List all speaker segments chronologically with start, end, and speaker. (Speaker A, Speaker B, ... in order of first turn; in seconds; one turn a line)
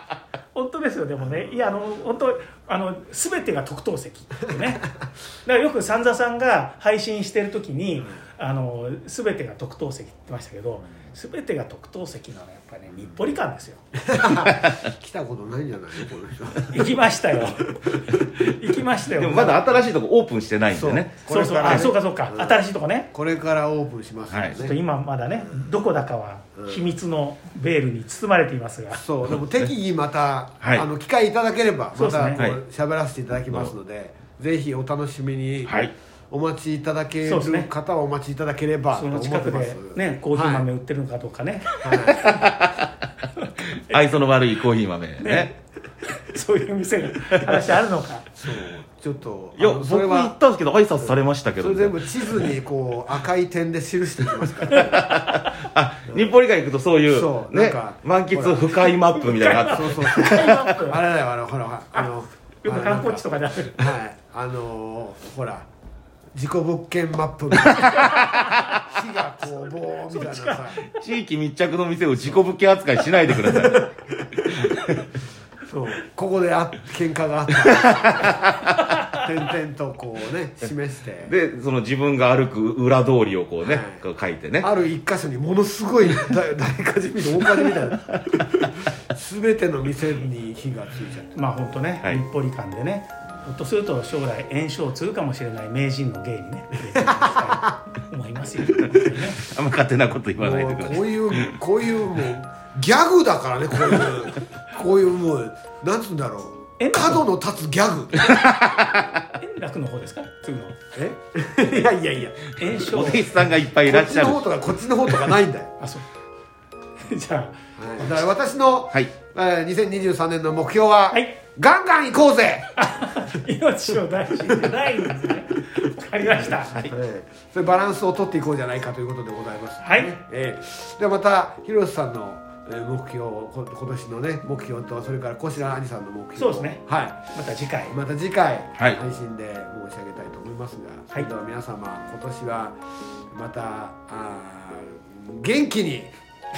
Speaker A: 0.5-4.9
Speaker A: 5.4-13.8
Speaker B: 14.0-18.6
Speaker C: 14.3-14.8
Speaker A: 16.7-19.7
Speaker C: 19.1-21.9
Speaker B: 20.7-24.8
Speaker A: 21.3-23.1
Speaker C: 24.3-24.7
Speaker A: 24.5-29.0
Speaker B: 28.9-35.7
Speaker C: 29.3-29.7
Speaker A: 32.0-32.5
Speaker C: 33.5-33.7
Speaker B: 36.3-40.7
Speaker A: 37.2-37.7
Speaker A: 38.9-42.4
Speaker B: 41.8-42.4
Speaker C: 42.1-42.9
Speaker A: 43.4-44.0
Speaker C: 43.7-45.5
Speaker A: 45.2-48.3
Speaker C: 47.3-47.6
Speaker B: 48.4-50.4
Speaker C: 49.6-52.5
Speaker B: 51.0-55.2
Speaker C: 54.4-60.8
Speaker A: 55.0-55.5
Speaker B: 57.1-58.8
Speaker A: 59.1-61.0
Speaker B: 59.4-63.2
Speaker A: 62.6-64.0
Speaker B: 63.8-65.7
Speaker B: 66.3-70.8
Speaker C: 68.0-68.8
Speaker A: 68.0-68.8
Speaker A: 70.1-70.6
Speaker C: 70.9-73.9
Speaker B: 73.5-74.8
Speaker C: 74.5-75.1
Speaker B: 75.7-78.5
Speaker C: 77.8-78.6
Speaker B: 79.1-81.3
Speaker C: 81.2-84.7
Speaker B: 83.6-84.0
Speaker B: 84.6-91.3
Speaker C: 87.4-88.7
Speaker A: 91.3-99.4
Speaker B: 97.0-97.8
Speaker C: 98.8-101.6
Speaker B: 100.4-108.3
Speaker A: 106.8-107.3
Speaker C: 108.2-109.3
Speaker A: 109.4-110.8
Speaker B: 110.9-112.5
Speaker A: 112.6-113.3
Speaker C: 112.7-114.5
Speaker B: 113.8-115.7
Speaker A: 115.8-116.0
Speaker A: 117.0-118.3
Speaker B: 117.8-122.7
Speaker A: 121.1-121.4
Speaker A: 122.8-126.8
Speaker B: 124.5-124.8
Speaker B: 126.8-137.3
Speaker A: 129.8-130.2
Speaker A: 136.4-136.8
Speaker A: 137.3-138.0
Speaker B: 137.9-146.1